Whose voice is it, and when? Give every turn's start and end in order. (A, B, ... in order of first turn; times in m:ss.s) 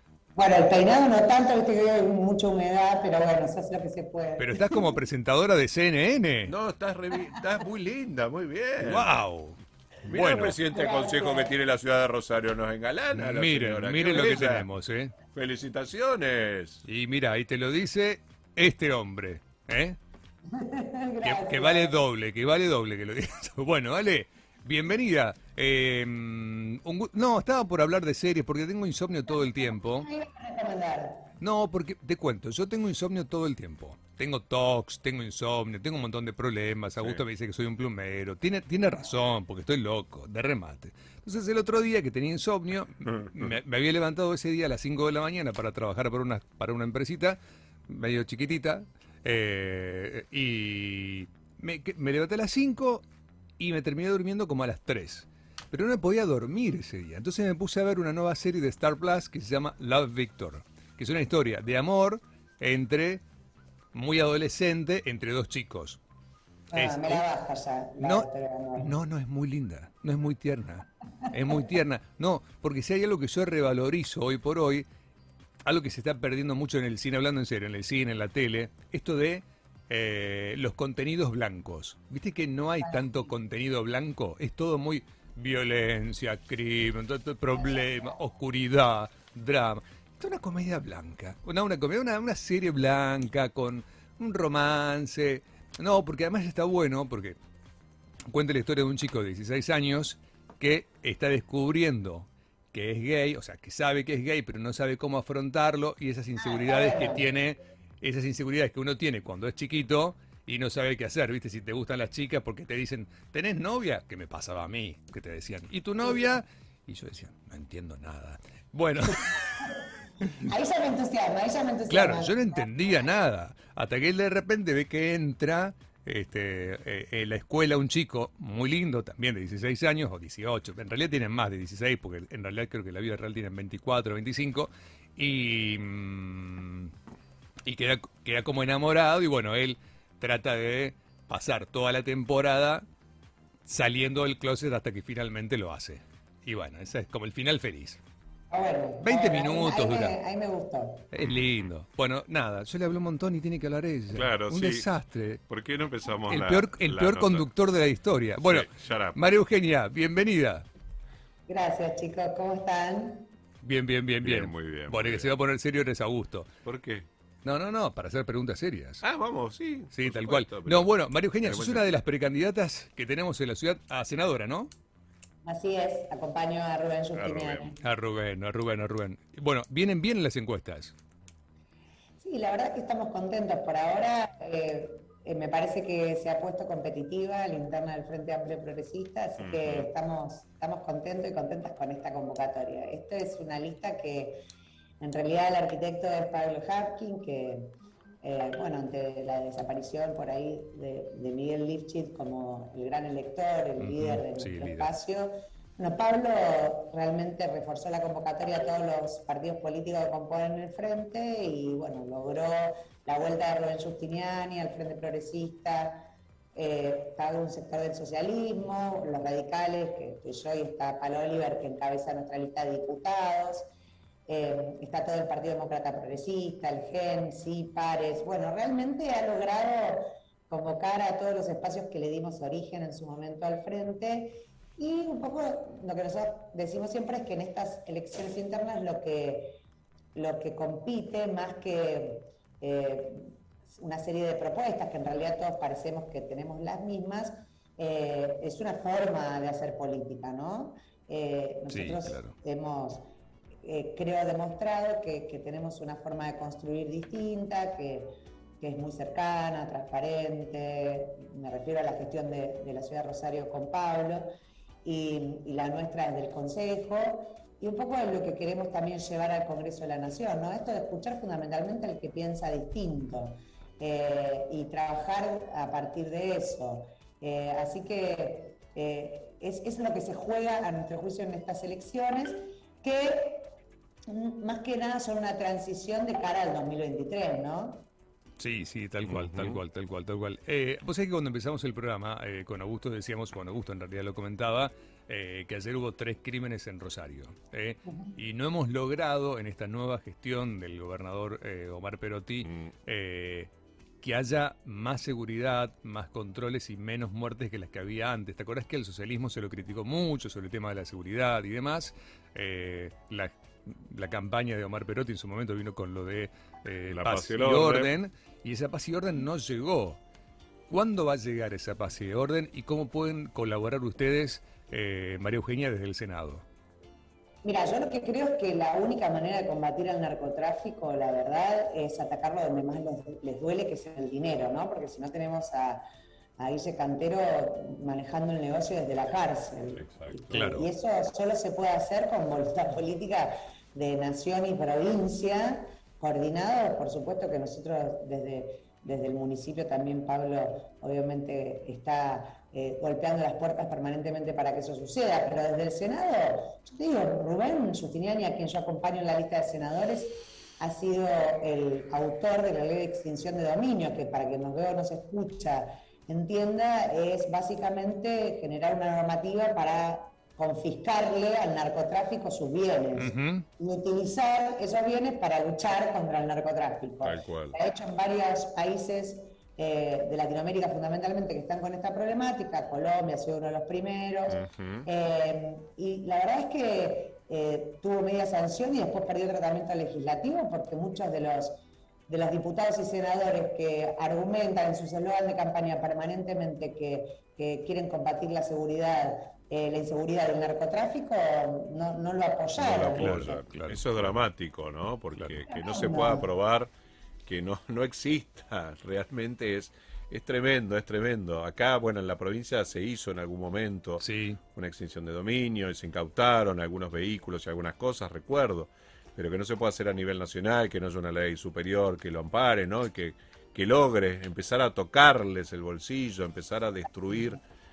0:00.4-0:05.0 A
0:04.4-0:06.5 B
0:06.5-0:09.1 C
0:08.8-0:10.6 B
0:10.0-0:14.7 C
0:10.7-0:11.6 A
0:13.1-0:15.1 B
0:15.3-0:16.8 C
0:16.8-0:20.0 B
0:20.5-0:22.0 A
0:21.2-0:30.1 B
0:29.3-0:31.3 A
0:31.4-0:53.0 B
0:37.0-0:37.2 C
0:53.6-1:03.2 B
1:03.9-1:06.0 B
1:06.7-1:09.0 A
1:06.7-1:07.3 B
1:08.0-1:14.9 B
1:15.6-1:37.4 B
1:22.8-1:23.3 A
1:38.3-2:00.5 B
1:46.4-1:47.3 A
2:00.4-2:03.1 A
2:01.9-2:16.9 B
2:17.6-2:22.8 B
2:23.7-2:28.0 B
2:28.5-2:31.1 A
2:29.0-2:30.2 B
2:31.1-2:35.4 B
2:31.2-2:31.6 C
2:34.1-2:34.9 C
2:35.5-2:37.5 C
2:36.3-2:40.6 B
2:38.4-2:39.2 C
2:41.5-2:43.3 A
2:43.6-2:46.5 B
2:44.2-2:45.3 C
2:46.6-2:47.1 C
2:47.4-2:49.0 B
2:49.0-2:51.9 C
2:49.9-2:54.7 B
2:55.4-2:57.8 A
2:57.2-2:57.7 C
2:57.8-3:01.0 B
3:02.2-3:14.4 A
3:09.4-3:09.9 C
3:15.0-3:43.7 A
3:23.8-3:24.9 B
3:44.3-3:59.6 A
4:00.2-4:13.1 A
4:11.7-4:12.3 B
4:13.6-4:24.3 A
4:24.8-4:43.5 A
4:44.1-4:47.9 A
4:48.4-5:03.5 B
4:49.1-4:49.6 C
4:57.9-4:58.2 A
5:02.4-5:02.7 C
5:04.0-5:20.0 B
5:16.9-5:17.9 C
5:20.7-5:26.4 B
5:27.4-5:35.8 A
5:36.4-6:43.4 A
5:39.8-5:40.3 C
5:40.3-5:40.7 B
6:13.0-6:13.5 B
6:17.0-6:17.6 C
6:24.3-6:24.9 C
6:42.6-6:46.7 C
6:42.8-6:44.2 B
6:45.1-6:45.4 B
6:45.5-6:46.3 A
6:47.3-6:54.0 C
6:54.0-6:54.4 B
6:54.6-7:07.4 C